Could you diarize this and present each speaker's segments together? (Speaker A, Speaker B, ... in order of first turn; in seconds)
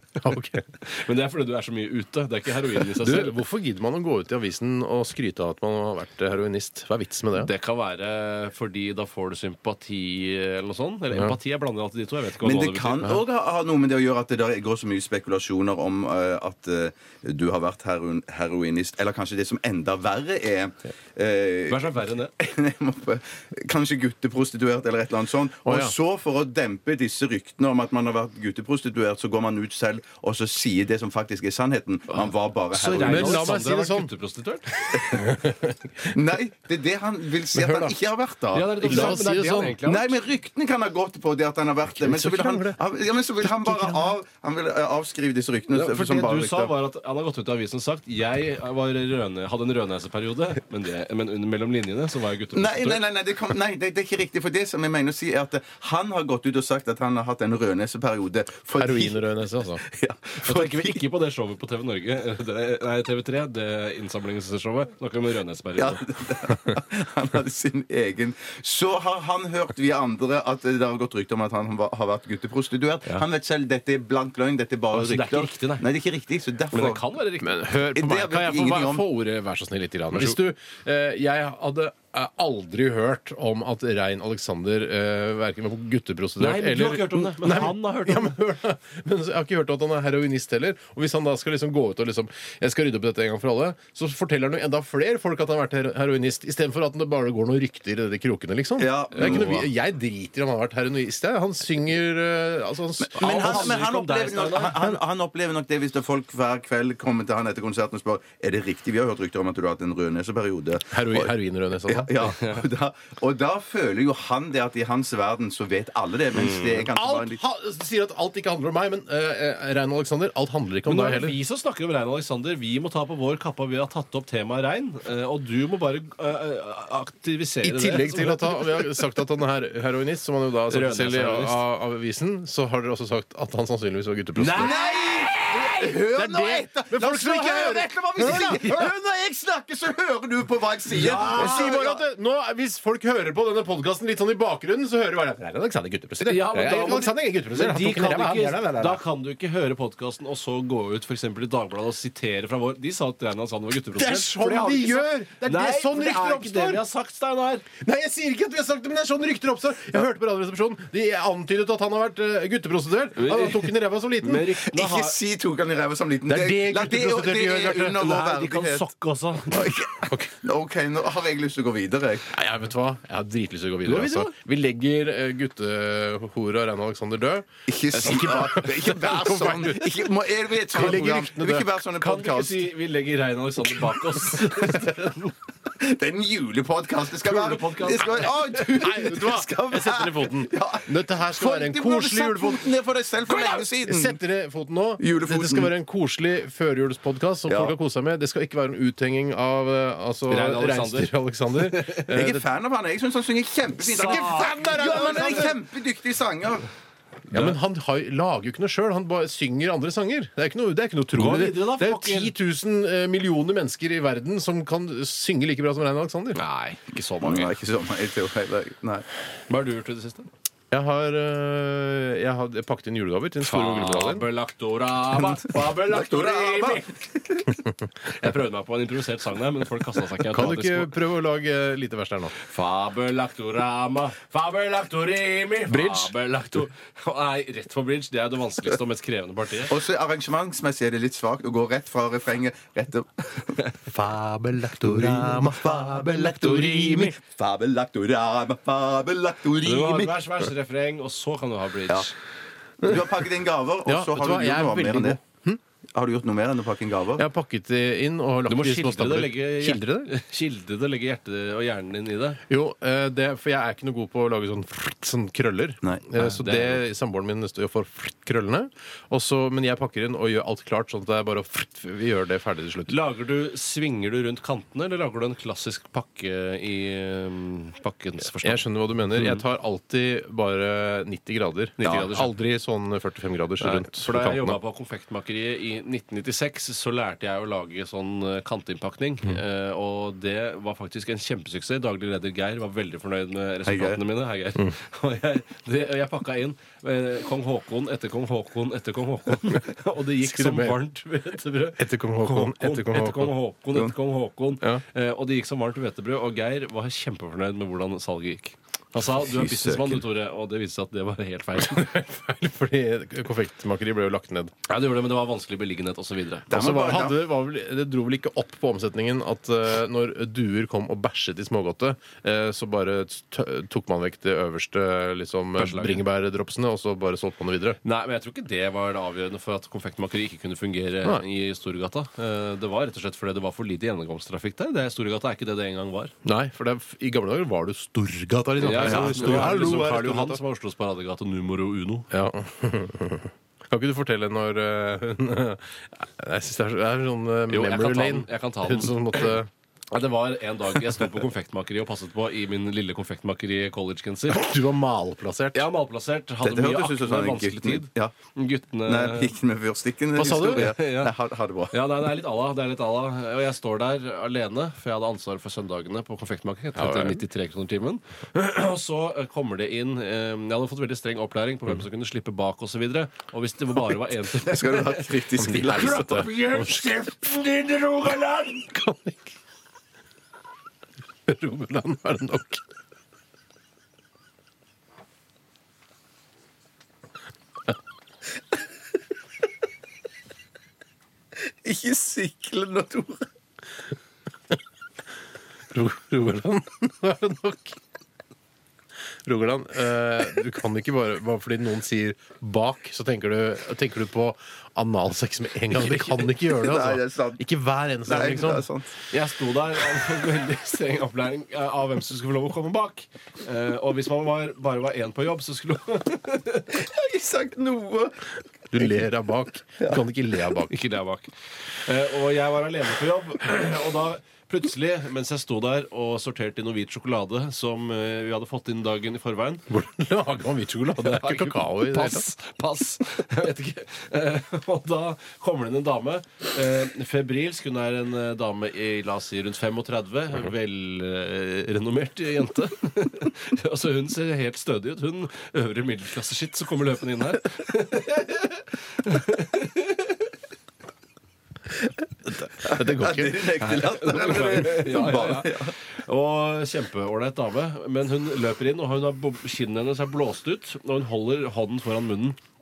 Speaker A: 0.2-0.7, 3.0-7.5, 25.6-25.9, 32.8-34.1, 34.8-36.1, 37.5-38.0, 38.9-39.8, 41.9-42.8, 43.4-44.1, 58.8-59.8, 77.4-103.8, 110.9-112.3, 116.9-121.4, 127.6-134.8, 136.2-138.9, 140.9-149.0, 154.0-156.8, 157.8-164.5, 166.3-168.0, 170.1-170.3, 172.3-180.2, 180.7-181.7, 188.1-202.5, 203.8-205.6, 207.3-216.4, 220.7-224.2, 230.3-232.3, 235.7-236.2, 243.9-247.2, 253.8-255.6, 257.2-260.1, 262.5-272.9, 278.4-284.6, 300.2-300.8, 301.8-303.3, 311.6-314.5, 316.5-327.8, 336.2-340.4, 342.1-349.5, 354.3-355.6, 360.1-360.7, 366.8-367.2, 375.4-377.2, 378.7-379.3, 381.3-382.6, 395.7-397.8, 399.3-408.7, 418.7-420.7, 429.7-432.3, 452.2-453.6
Speaker B: 0.8-3.4, 7.3-13.1, 21.7-22.3, 32.8-35.0, 38.5-40.2, 45.7-53.0, 60.4-66.0, 74.9-75.9, 76.7-77.7, 86.4-88.4, 99.2-99.6, 103.2-104.9, 116.4-116.8, 120.8-128.9, 130.7-131.6, 134.4-136.3, 140.9-141.7, 146.2-157.7, 163.2-165.2, 168.0-169.7, 173.8-174.3, 178.0-178.7, 180.8-181.2, 182.0-185.3, 187.2-188.6, 200.3-202.1, 203.8-205.4, 207.3-207.6, 211.1-212.3, 216.3-217.6, 219.5-220.3, 223.4-227.0, 228.2-230.9, 232.4-239.7, 249.6-252.1, 258.5-262.4, 266.2-266.8, 272.9-279.4, 281.8-282.3, 283.6-311.9, 314.7-316.5, 325.6-326.1, 327.8-336.1, 338.6-342.1, 347.5-349.3, 349.9-354.4, 355.6-359.3, 360.4-361.1, 361.7-378.7, 409.1-416.8, 420.7-421.3, 421.9-429.6, 430.9-450.3, 453.6-462.4
Speaker C: 12.4-33.4, 34.9-35.3, 36.1-39.2, 39.8-46.7, 52.5-61.0, 65.8-77.0, 77.9-79.0, 98.8-99.7, 103.0-111.3, 111.8-117.4, 134.6-142.0, 164.7-168.9, 169.5-172.3, 177.7-182.7, 185.8-194.2, 195.0-195.7, 197.5-197.8, 202.1-206.7, 217.2-219.1, 225.1-227.5, 239.7-243.6, 244.8-250.1, 252.8-255.2, 255.9-257.2, 265.8-266.3, 293.6-294.0, 309.0-310.0, 316.5-317.2, 338.9-339.5, 356.4-358.1, 358.8-361.8, 374.3-376.3, 391.5-393.2, 406.4-407.4, 408.1-408.9, 416.7-418.1, 452.6-455.7